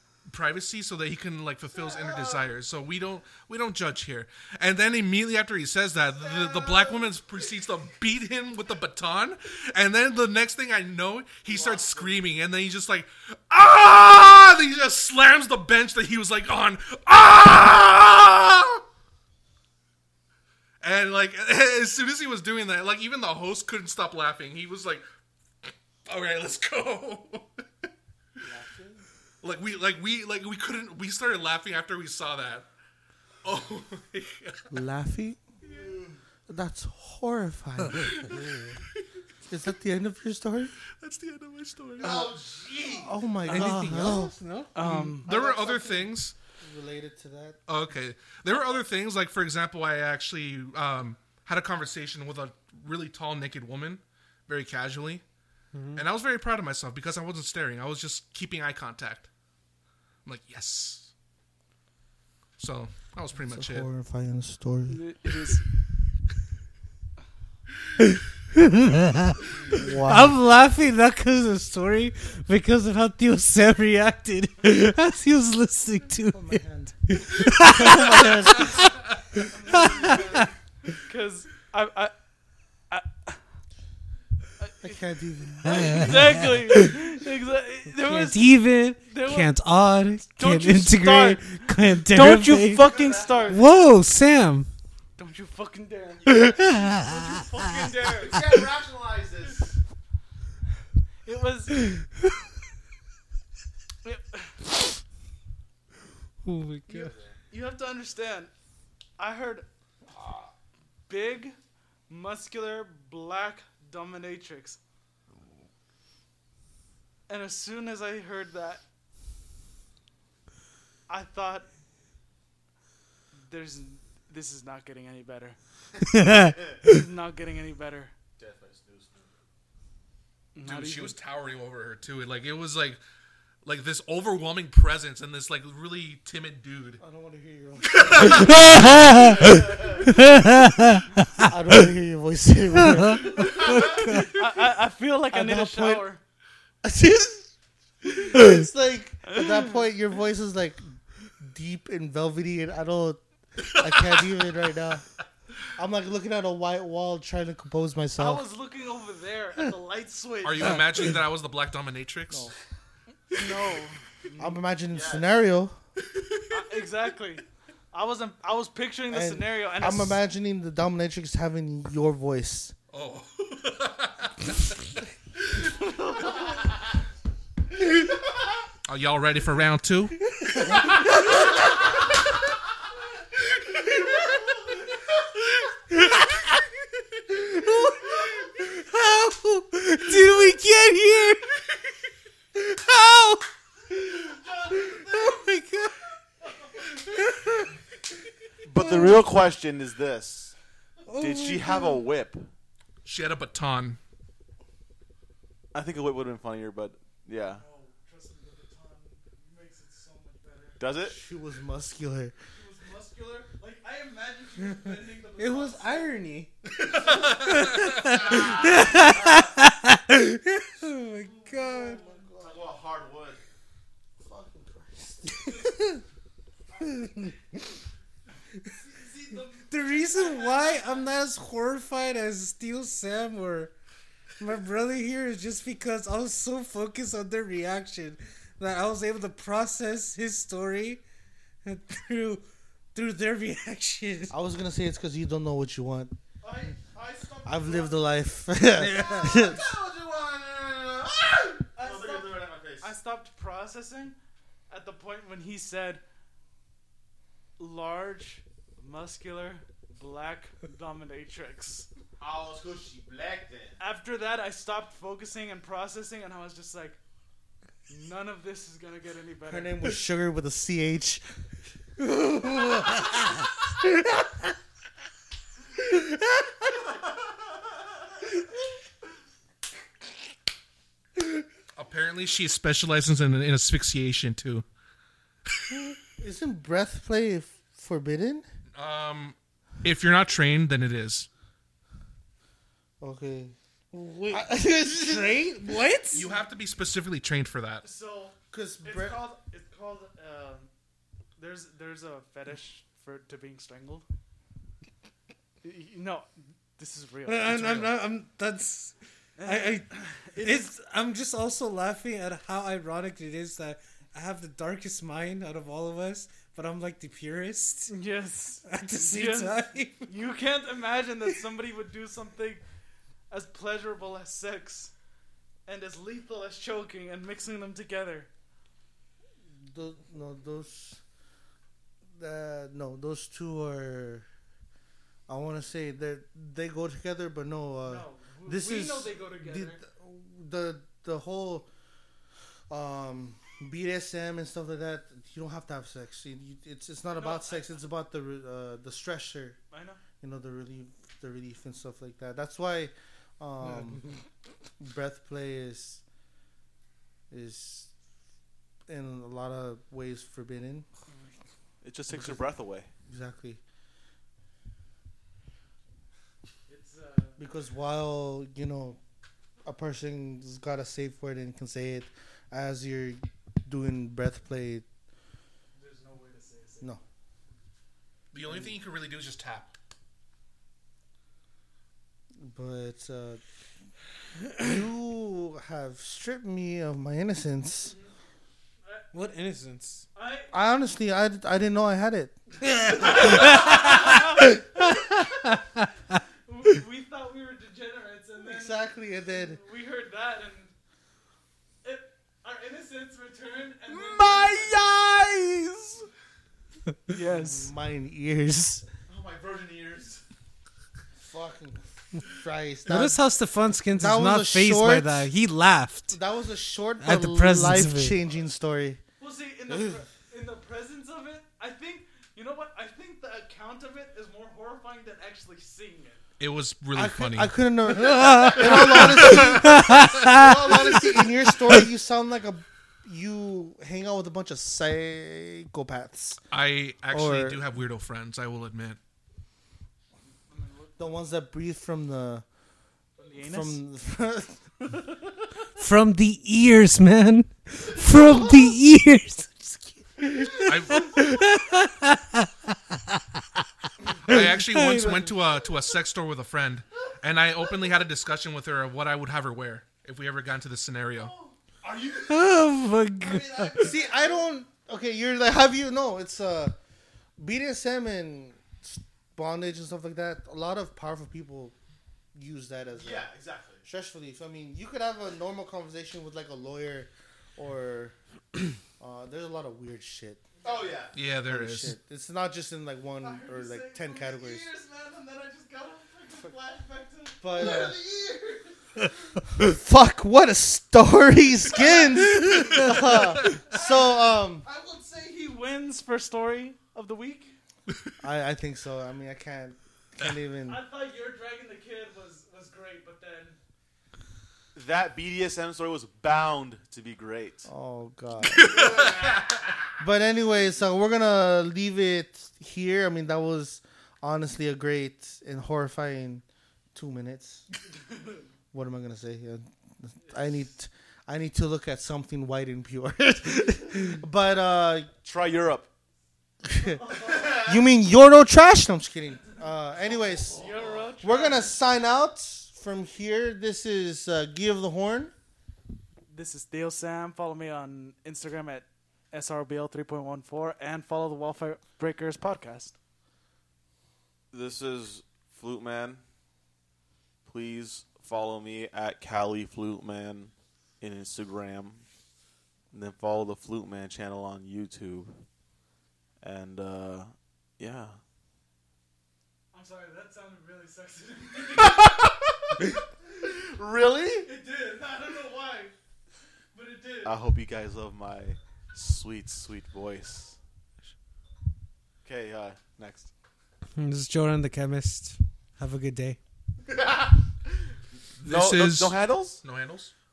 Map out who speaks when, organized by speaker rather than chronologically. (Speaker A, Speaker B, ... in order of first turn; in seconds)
Speaker A: 0.3-18.8, 20.8-25.1, 25.6-27.6, 29.4-32.7, 33.4-34.7, 38.1-38.6, 41.0-42.3, 45.3-46.4, 47.7-55.2, 55.9-59.3, 60.3-61.1, 62.6-63.9, 130.6-133.0, 133.6-137.0, 137.8-138.8, 153.8-154.4, 160.4-162.5, 166.2-166.4, 172.9-175.7, 178.8-180.2, 203.1-204.0, 216.8-218.0, 281.8-284.6, 288.7-291.3, 296.1-297.9, 378.3-379.8, 426.4-427.6, 429.0-430.2, 436.5-439.0, 450.6-451.2, 454.2-461.3, 481.1-481.9, 508.5-509.4, 578.4-580.1
Speaker B: 1.8-2.4, 6.4-6.8, 11.5-12.1, 35.7-36.2, 42.0-43.7, 92.8-93.8, 97.7-99.8, 106.9-107.4, 128.4-129.3, 139.1-140.1, 143.4-144.0, 164.9-165.3, 198.7-200.5, 201.2-202.5, 205.7-207.6, 210.8-211.2, 218.1-219.4, 222.4-223.4, 248.9-252.9, 262.2-263.8, 361.8-362.9, 403.9-406.1, 409.1-410.2, 461.9-462.4, 472.9-473.8, 480.6-481.1, 504.7-507.7, 508.6-509.8, 525.2-525.9, 527.2-527.7, 530.5-531.0, 544.5-546.2, 547.5-552.0, 552.9-555.5, 556.4-558.2, 561.9-562.9, 563.4-564.5, 567.2-570.6, 572.2-573.3, 576.9-577.4, 578.5-579.6
Speaker C: 28.4-29.1, 34.7-35.4, 36.5-38.4, 39.5-40.7, 42.0-42.3, 42.9-47.6, 63.4-65.0, 69.7-70.4, 76.3-78.9, 84.8-86.1, 137.0-140.2, 141.4-144.2, 145.3-146.1, 146.8-155.1, 155.7-158.4, 162.3-162.6, 164.4-165.8, 169.1-172.7, 211.0-212.3, 221.6-222.7, 224.2-225.7, 244.3-246.1, 247.4-249.7, 269.5-271.2, 286.2-288.4, 293.0-293.6, 294.3-295.7, 298.5-299.2, 329.6-331.0, 332.1-334.3, 335.3-341.7, 342.7-349.6, 350.2-354.1, 354.8-356.0, 357.3-357.9, 358.9-360.9, 362.1-362.5, 363.1-363.6, 367.4-369.0, 369.6-374.9, 382.4-383.4, 384.6-387.9, 390.5-392.4, 393.0-393.9, 398.4-399.6, 407.3-408.9, 411.2-413.2, 413.9-415.3, 416.1-419.0, 426.9-436.4, 437.1-437.6, 441.0-442.4, 443.4-444.6, 463.8-466.7, 467.4-471.7, 472.4-473.3, 473.8-478.1, 478.8-480.5, 481.4-484.6, 487.4-488.0, 489.5-494.6, 498.2-500.8, 507.6-509.0, 510.0-517.7, 518.7-525.1, 526.6-535.3
Speaker D: 43.5-44.7, 55.7-56.0, 68.6-80.5, 85.7-86.9, 88.0-92.9, 93.5-94.7, 96.3-97.4, 98.4-98.6, 106.4-107.2, 126.1-127.0, 138.2-141.8, 142.8-144.4, 180.4-180.9, 185.9-186.6, 187.2-191.7, 192.6-196.0, 197.0-197.7, 198.8-199.3, 201.1-202.1, 215.4-216.5, 217.2-222.0, 225.4-226.0, 226.9-227.3, 229.7-233.7, 234.4-241.0, 241.7-244.3, 248.8-249.4, 272.2-273.4, 293.9-296.3, 307.3-317.9, 318.6-320.1, 353.8-354.2, 389.1-390.1, 392.7-394.2, 394.9-395.9, 412.9-416.2, 417.0-418.2, 428.0-431.8, 445.8-455.3, 462.2-463.8, 574.0-576.4
Speaker E: 44.7-45.2, 64.9-65.6, 79.5-82.1, 82.9-83.4, 84.6-85.0, 85.6-89.5, 90.3-93.6, 95.2-98.4, 101.2-101.8, 104.0-104.6, 107.5-108.5, 109.2-109.7, 111.1-111.6, 112.1-114.8, 117.3-118.8, 121.1-121.7, 123.5-125.6, 126.9-128.1, 130.6-131.2, 144.2-146.2, 149.3-149.7, 158.2-160.9, 163.3-164.6, 166.5-170.2, 194.2-195.4, 196.4-197.1, 207.5-210.8, 212.5-216.2, 221.2-222.3, 228.7-231.1, 246.4-248.2, 251.8-254.2, 254.7-256.0, 257.6-261.9, 263.8-267.0, 267.9-269.9, 297.8-300.7, 301.4-304.1, 305.6-308.0, 309.4-310.7, 317.9-322.6, 323.3-324.9, 325.7-328.3, 337.8-339.8, 347.1-347.8, 349.7-350.0, 366.7-367.4, 375.8-376.9, 387.9-388.1, 390.1-390.5, 392.9-400.7, 401.8-404.8, 407.1-407.7, 419.2-426.2, 440.5-441.0, 443.2-443.8, 461.1-462.2, 463.2-464.5, 480.6-481.1, 483.2-489.4, 493.7-497.6, 500.7-503.6, 527.0-527.5, 530.5-531.7, 536.3-543.0, 559.7-562.0, 564.4-566.0, 566.7-567.4